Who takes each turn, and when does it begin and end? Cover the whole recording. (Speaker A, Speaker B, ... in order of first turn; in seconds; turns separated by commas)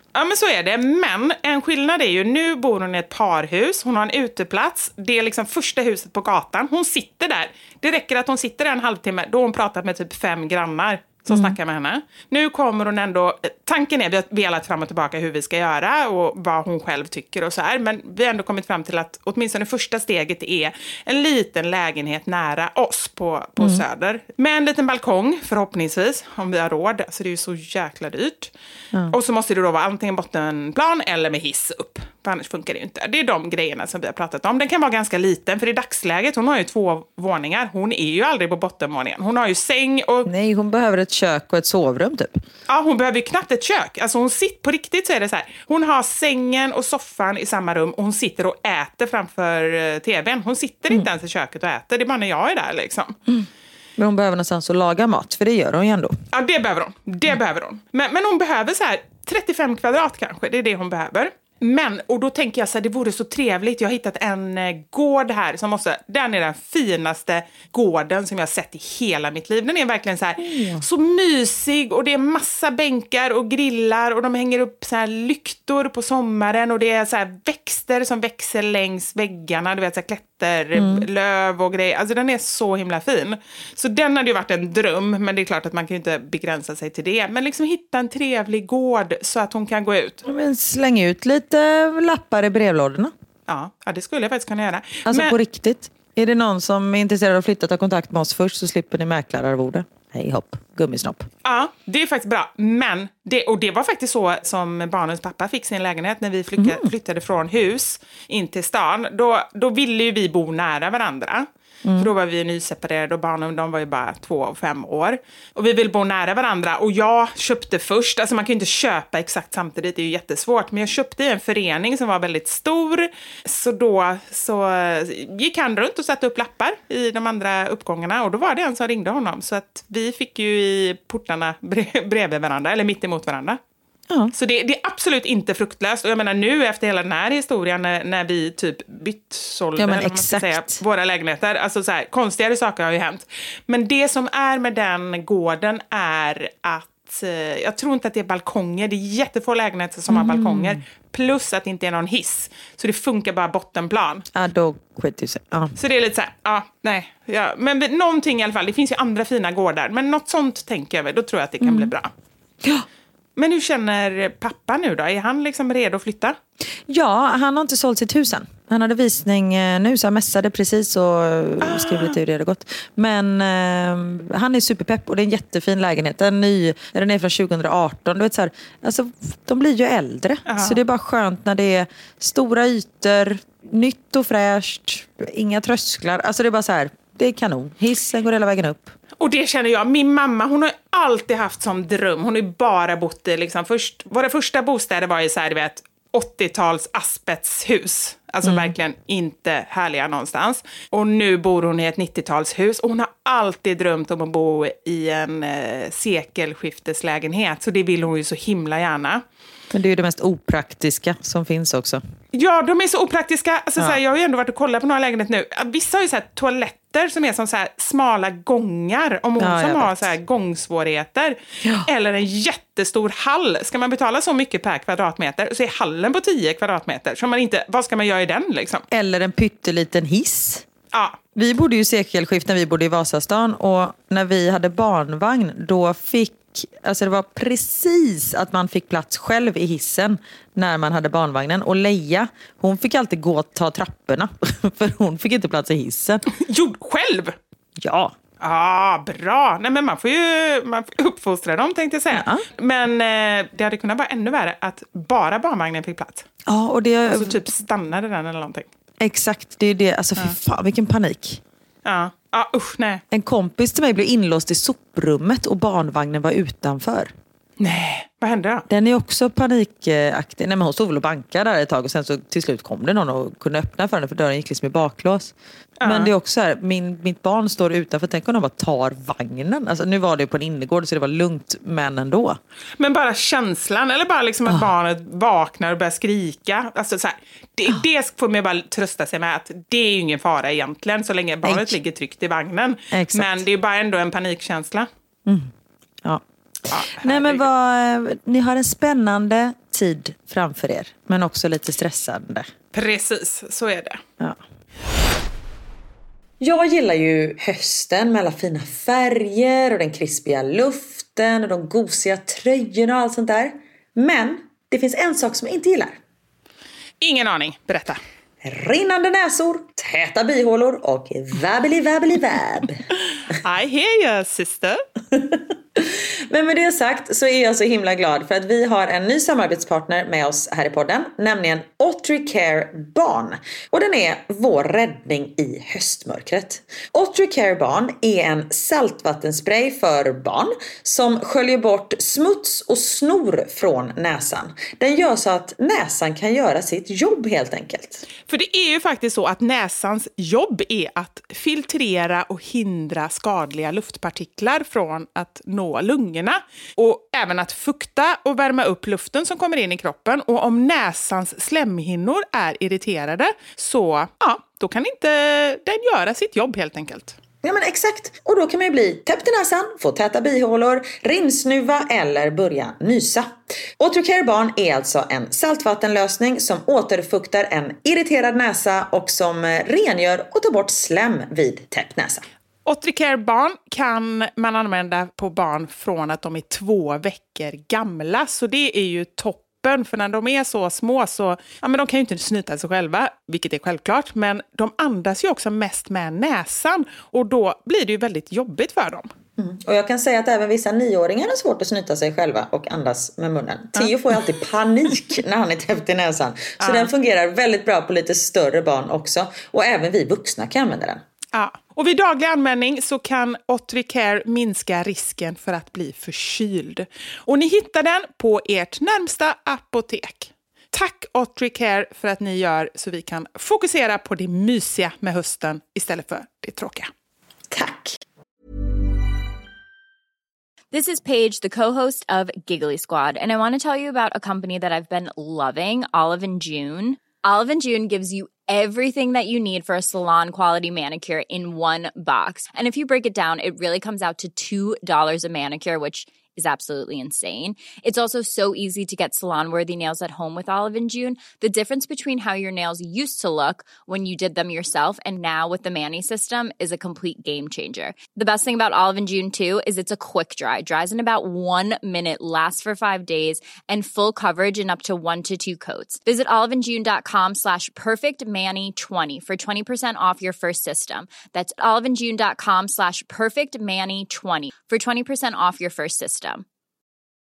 Speaker A: 0.1-28.5, Speaker B: 11.3-11.5, Speaker A: 29.1-40.3, Speaker B: 40.2-42.4, Speaker A: 42.7-53.2, Speaker B: 54.0-56.1, Speaker A: 56.3-90.2, Speaker B: 70.4-70.8, Speaker B: 80.7-81.0, Speaker B: 90.2-93.1, Speaker A: 93.5-95.3, Speaker B: 95.1-101.3, Speaker A: 101.4-133.6, Speaker B: 106.6-106.9, Speaker B: 111.8-112.1, Speaker A: 134.3-154.2, Speaker B: 139.8-140.8, Speaker B: 150.1-150.8, Speaker B: 154.3-155.7, Speaker A: 155.8-162.1, Speaker B: 161.6-161.9, Speaker A: 163.4-166.4, Speaker B: 166.9-188.9, Speaker A: 171.6-172.2, Speaker A: 180.4-180.8, Speaker A: 189.2-209.2, Speaker B: 198.4-198.7, Speaker B: 209.7-212.0, Speaker A: 212.3-228.8, Speaker B: 219.4-220.1, Speaker B: 228.9-230.6, Speaker A: 230.9-231.2, Speaker B: 231.3-246.2, Speaker A: 246.3-247.3, Speaker B: 247.8-248.1, Speaker A: 248.4-256.3, Speaker B: 252.1-252.4, Speaker B: 256.5-257.4, Speaker A: 257.1-258.6, Speaker B: 259.0-261.4, Speaker A: 261.8-263.0, Speaker B: 263.1-267.1, Speaker A: 267.6-268.6, Speaker B: 268.7-282.4, Speaker A: 275.8-276.1, Speaker A: 282.8-294.9, Speaker B: 291.4-291.8, Speaker B: 292.9-293.4, Speaker A: 296.7-297.5, Speaker B: 297.0-302.5, Speaker A: 302.7-304.0, Speaker B: 306.4-316.0, Speaker A: 317.0-318.0, Speaker B: 318.4-322.8, Speaker A: 323.3-324.8, Speaker B: 325.2-348.0, Speaker A: 348.3-367.1, Speaker B: 367.4-382.2, Speaker A: 382.6-399.1, Speaker B: 399.4-411.0, Speaker A: 406.6-406.9, Speaker A: 411.3-426.9, Speaker B: 427.5-428.0, Speaker C: 430.7-476.4